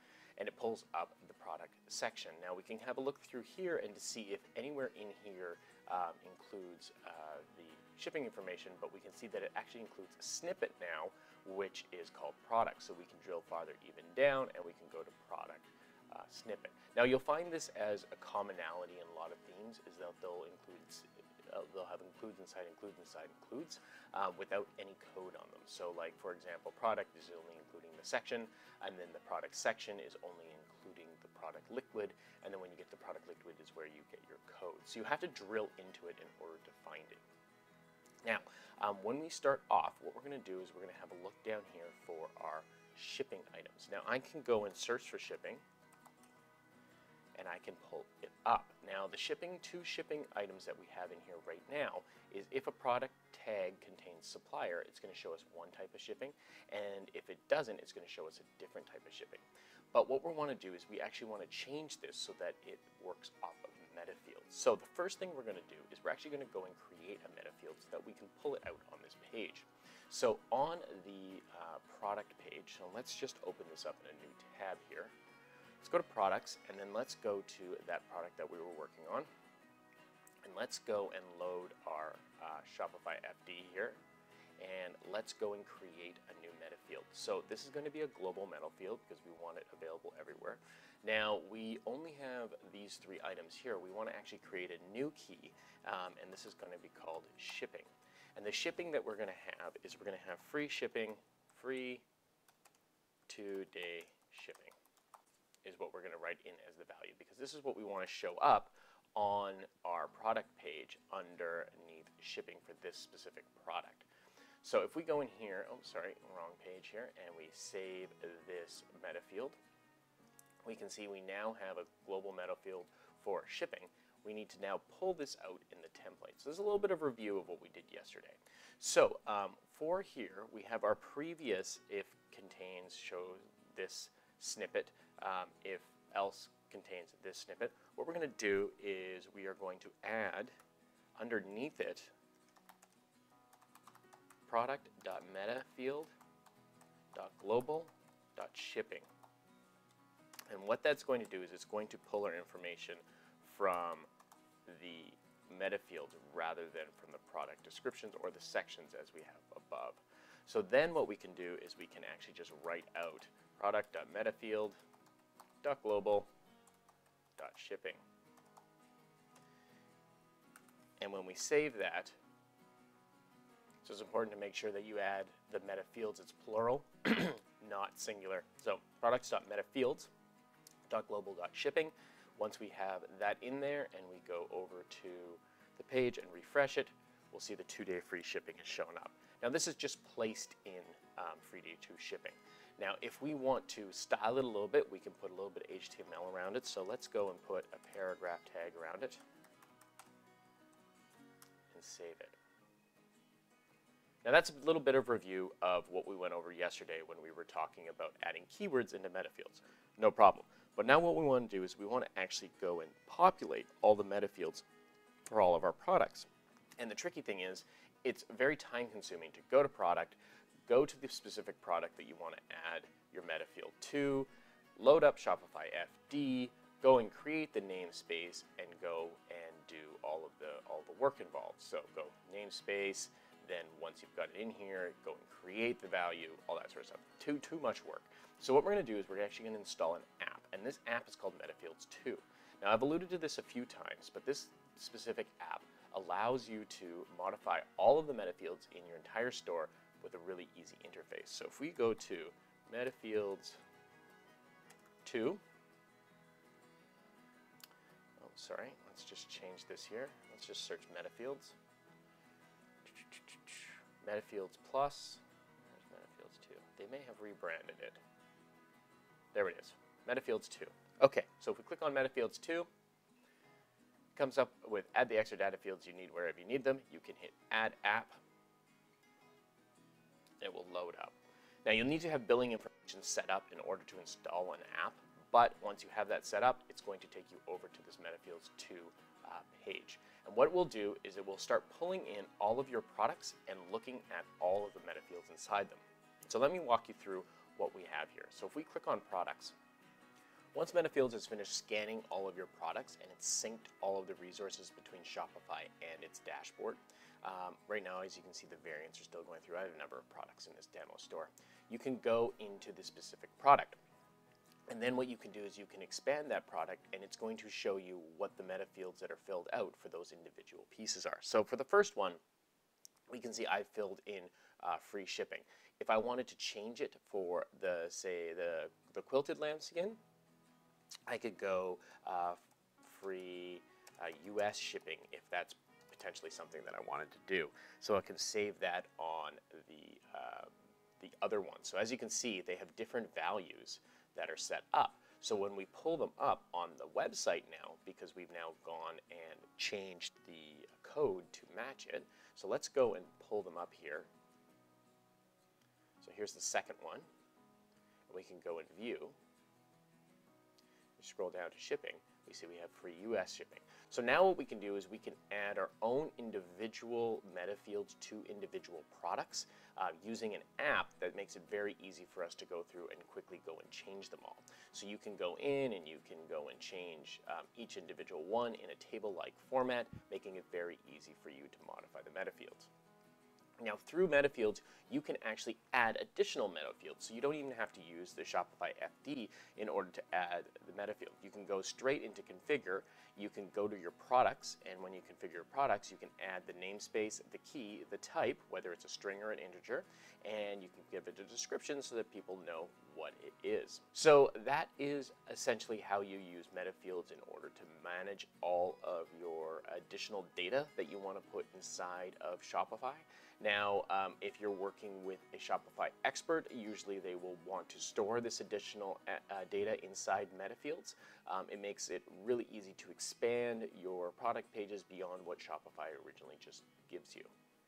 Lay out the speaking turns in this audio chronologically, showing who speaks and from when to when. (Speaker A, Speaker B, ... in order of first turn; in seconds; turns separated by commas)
Speaker A: 0.4-37.2, Speaker A: 38.2-45.6, Speaker A: 47.4-75.2, Speaker A: 75.8-79.3, Speaker A: 80.4-84.0, Speaker A: 84.6-102.0, Speaker A: 103.3-104.8, Speaker A: 105.6-114.1, Speaker A: 114.6-119.6, Speaker A: 120.7-140.5, Speaker A: 141.2-142.1, Speaker A: 144.5-146.1, Speaker A: 147.1-149.1, Speaker A: 150.5-154.1, Speaker A: 154.7-164.8, Speaker A: 165.6-166.3, Speaker A: 167.4-168.0, Speaker A: 171.0-172.2, Speaker A: 173.8-180.1, Speaker A: 180.9-199.2, Speaker A: 201.7-202.4, Speaker A: 204.2-214.7, Speaker A: 215.3-216.3, Speaker A: 216.8-253.6, Speaker A: 255.1-255.4, Speaker A: 258.2-261.6, Speaker A: 263.0-268.0, Speaker A: 269.3-272.7, Speaker A: 274.1-278.2, Speaker A: 280.4-299.6, Speaker A: 300.5-313.8, Speaker A: 314.7-322.2, Speaker A: 323.1-330.0, Speaker A: 331.1-354.1, Speaker A: 356.0-357.1, Speaker A: 358.1-359.1, Speaker A: 361.0-382.7, Speaker A: 383.6-427.3